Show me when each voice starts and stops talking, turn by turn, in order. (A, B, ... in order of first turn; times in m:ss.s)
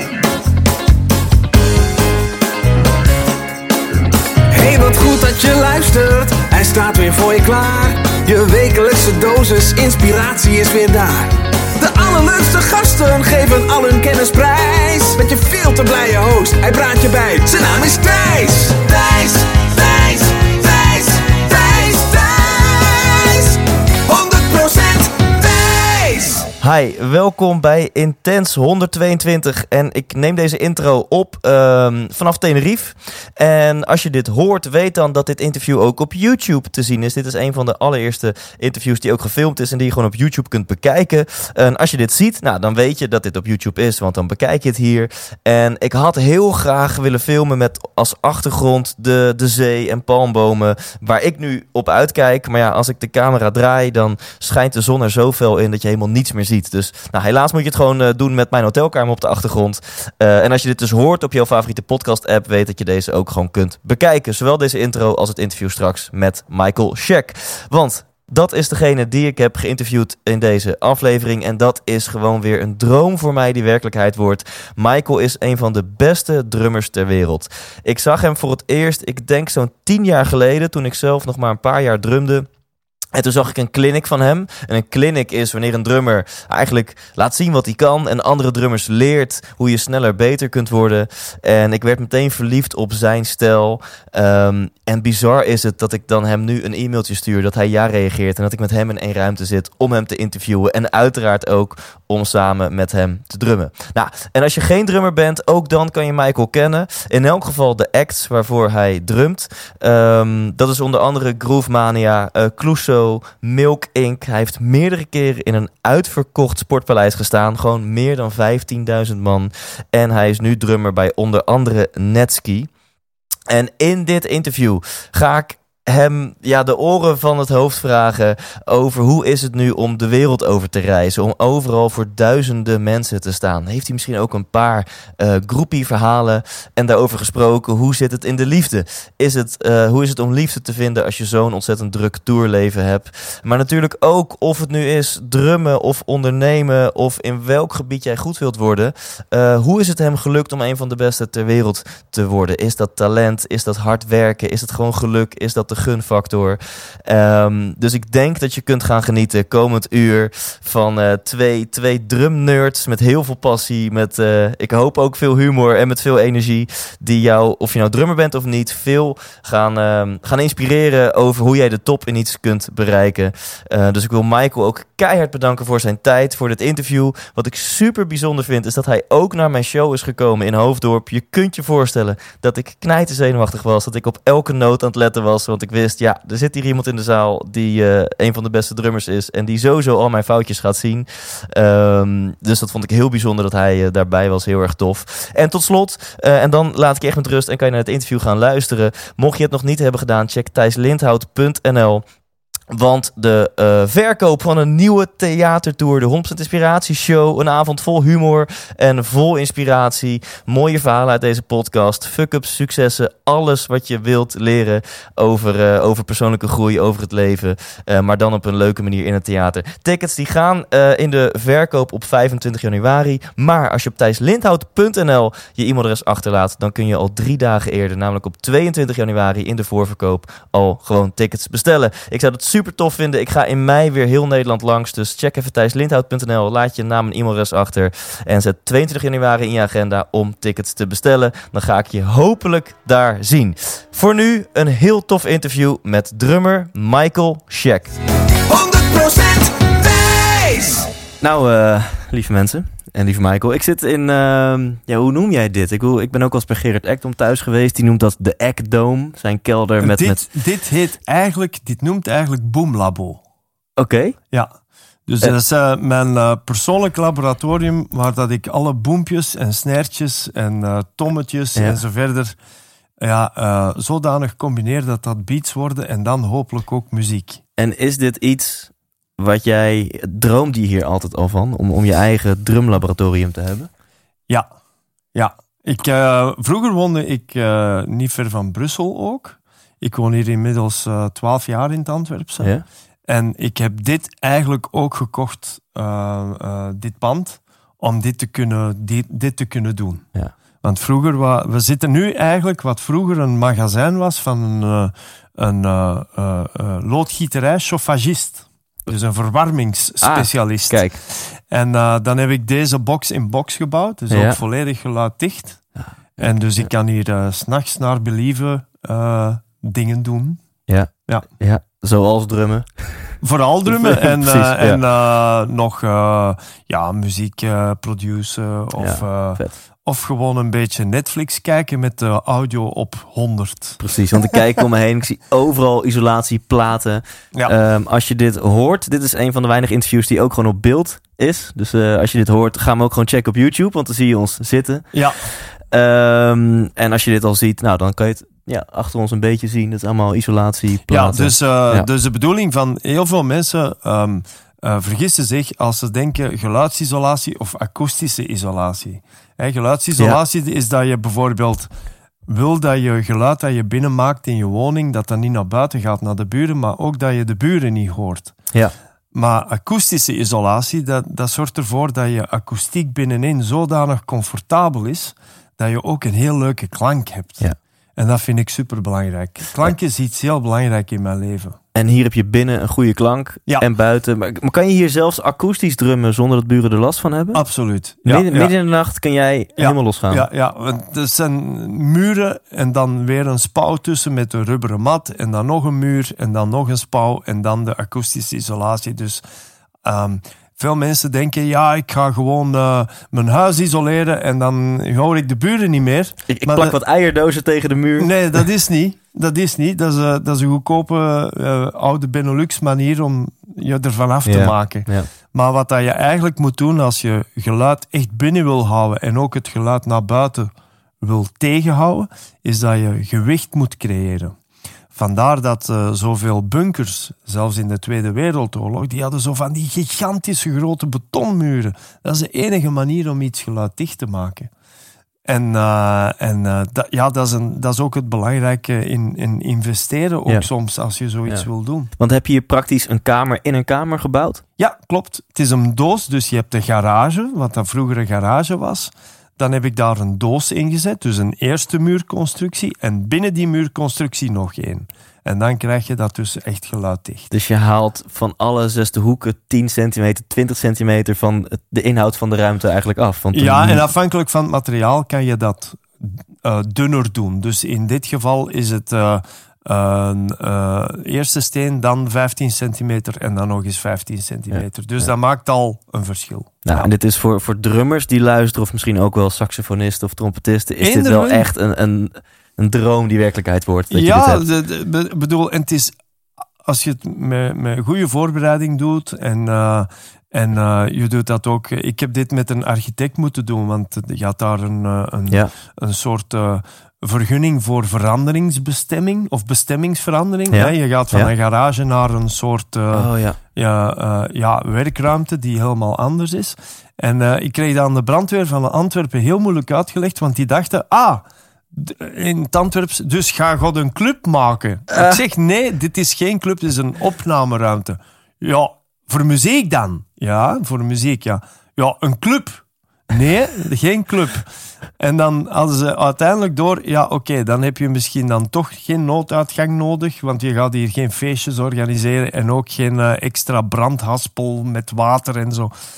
0:04.5-0:26.5 A
0:26.6-1:22.5 B
1:23.1-2:02.7 B
2:03.5-3:22.0 B
3:22.7-4:07.9 B
4:08.5-4:10.9 A
4:11.2-4:20.2 B
4:19.8-4:23.2 C
4:23.8-4:24.2 B
4:25.1-4:32.4 C
4:33.0-4:37.4 C
4:37.6-4:43.7 B
4:45.1-4:52.5 C
4:53.1-5:00.0 C
5:00.6-5:15.6 C
5:10.0-5:11.0 B
5:14.1-5:14.4 B
5:16.2-5:20.4 C
5:20.7-5:23.2 B
5:23.2-5:34.4 C
5:23.7-5:24.8 B
5:28.8-5:29.5 B
5:33.8-5:51.9 B
5:44.9-5:45.2 C
5:50.9-6:01.7 C
6:02.3-6:08.4 C
6:09.1-6:21.6 C
6:21.7-6:27.4 B
6:27.3-6:28.5 C
6:28.0-6:30.3 B
6:29.6-6:39.2 C
6:39.8-6:46.8 C
6:46.3-6:48.1 B
6:48.0-7:00.5 C
6:54.2-6:55.1 B
7:01.0-7:04.3 C
7:04.9-7:14.5 C
7:15.3-7:21.9 C
7:22.0-7:24.4 B
7:24.6-7:37.3 C
7:37.3-7:43.8 B
7:43.3-7:56.9 C
7:54.5-7:55.1 B
7:56.6-8:04.4 B
8:00.8-8:01.5 C
8:03.9-8:05.9 C
8:06.6-8:44.4 C
8:20.5-8:21.3 B
8:22.9-8:23.4 B
8:34.9-8:35.2 B
8:45.0-8:55.7 C